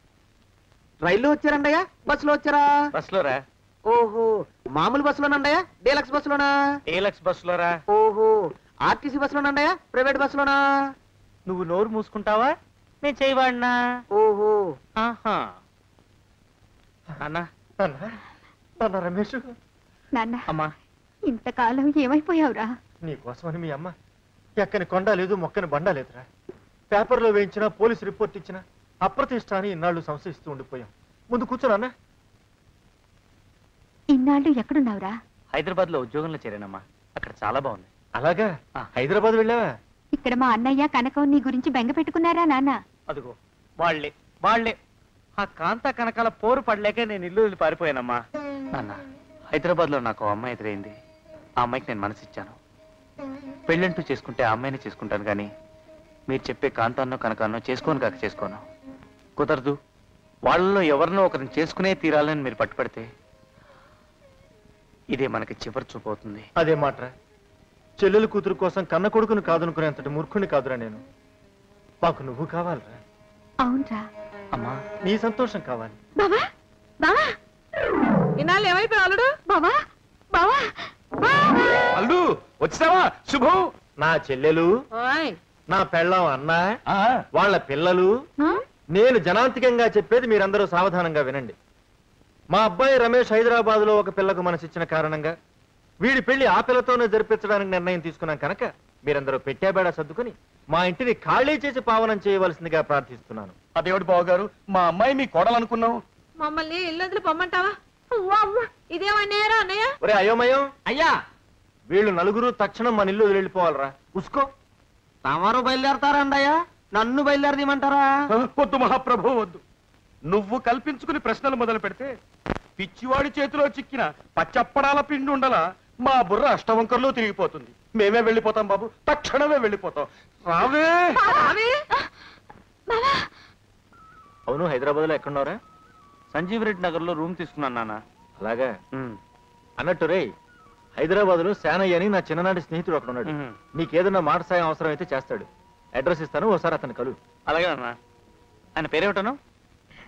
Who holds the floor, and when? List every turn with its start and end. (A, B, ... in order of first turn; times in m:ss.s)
0:01.0-0:02.8 A
0:02.9-0:03.4 B
0:03.8-0:06.8 A
0:06.9-0:07.8 B
0:07.9-0:10.9 A
0:11.4-0:13.8 B
0:14.1-0:14.8 A
0:15.0-0:15.5 B
0:17.2-0:17.4 B
0:17.8-0:18.2 C
0:18.8-0:19.5 C
0:20.2-0:20.4 D
0:21.3-0:22.7 D
0:23.0-0:23.9 C
0:24.6-0:26.2 C
0:26.9-0:31.9 C
0:34.1-0:35.1 D
0:35.5-0:37.9 B
0:38.2-0:39.7 C
0:40.1-0:42.8 D
0:43.1-0:44.8 B
0:45.4-0:48.2 B
0:48.7-0:49.0 B
0:49.5-0:50.9 B
0:51.6-0:52.6 B
0:53.7-0:55.5 B
0:56.3-0:58.6 B
0:59.4-0:59.8 B
1:00.4-1:03.0 B
1:05.1-1:06.5 B
1:06.6-1:07.1 C
1:08.0-1:11.0 C
1:12.0-1:13.0 C
1:13.6-1:14.0 D
1:15.0-1:16.0 C
1:16.2-1:16.5 D
1:18.4-1:19.4 E
1:19.5-1:19.8 D
1:20.4-1:20.6 E
1:21.2-1:21.8 E
1:21.9-1:23.7 F
1:24.0-1:24.7 C
1:24.9-1:25.4 E
1:25.7-1:26.6 C
1:27.3-1:28.1 C
1:28.9-1:31.5 C
1:32.5-1:35.3 C
1:36.0-1:43.5 C
1:43.7-1:46.0 F
1:46.4-1:49.9 E
1:50.0-1:50.7 C
1:50.8-1:51.1 A
1:51.9-1:54.5 C
1:55.2-1:58.1 A
1:58.3-1:59.6 F
2:00.2-2:02.1 F
2:02.8-2:11.4 F
2:11.2-2:11.8 E
2:12.9-2:13.2 E
2:14.5-2:15.6 C
2:16.3-2:18.0 B
2:18.4-2:18.7 C
2:19.8-2:20.3 C
2:21.0-2:27.2 C
2:23.3-2:23.6 B
2:27.5-2:28.0 B
2:28.8-2:29.4 B